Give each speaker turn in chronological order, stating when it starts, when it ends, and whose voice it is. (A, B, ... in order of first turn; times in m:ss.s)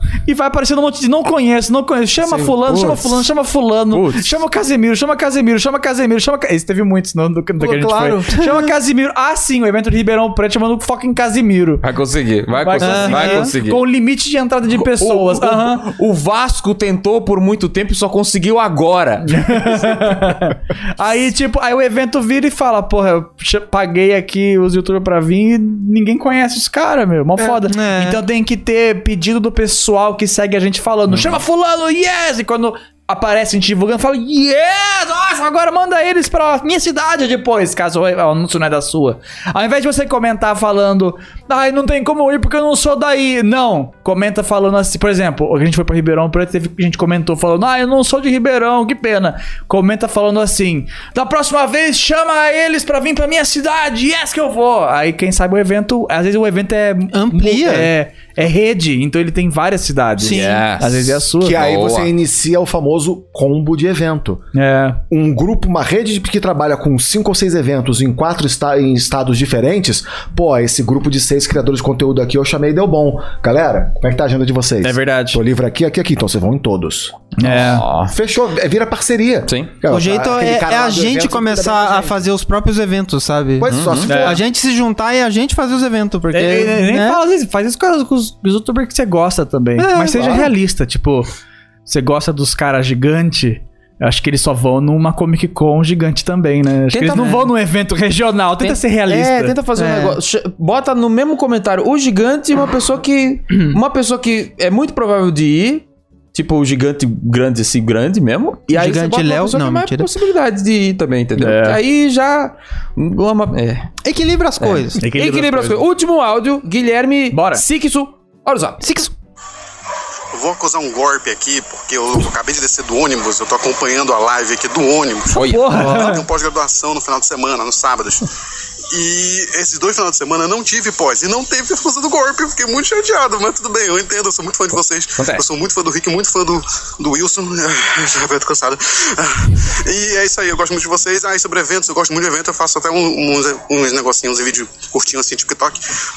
0:00.3-0:11.8 A
0:02.2-0:03.2 B
0:03.9-0:04.4 B
0:07.6-0:08.4 C
0:11.8-0:13.8 B
0:12.5-0:15.9 A
0:12.8-0:13.5 D
0:14.8-0:19.7 B
0:19.3-1:01.6 A
0:27.7-0:28.2 D
0:57.1-0:57.9 D
1:00.2-1:02.1 B
1:01.4-1:04.4 C
1:04.6-1:05.0 A
1:05.1-1:22.2 C
1:14.8-1:15.4 A
1:17.4-1:17.9 A
1:17.4-1:18.1 B
1:19.5-1:19.7 B
1:19.9-1:27.2 D
1:23.6-1:24.4 C
1:23.7-1:24.2 B
1:24.1-1:24.4 A
1:26.3-1:31.3 A
1:29.8-1:30.5 D
1:31.9-1:39.6 A
1:36.9-1:37.4 B
1:37.1-1:37.5 D
1:38.6-1:53.9 B
1:39.8-1:40.2 D
1:48.7-1:50.1 D
1:51.4-1:51.8 A
1:54.0-1:55.0 D
1:54.6-1:58.8 B
1:55.0-1:55.8 A
1:57.3-1:57.6 A
1:58.8-1:59.1 D
2:00.3-2:08.3 E
2:05.3-2:05.8 B
2:05.4-2:06.2 A
2:08.9-2:25.8 E
2:15.2-2:15.4 B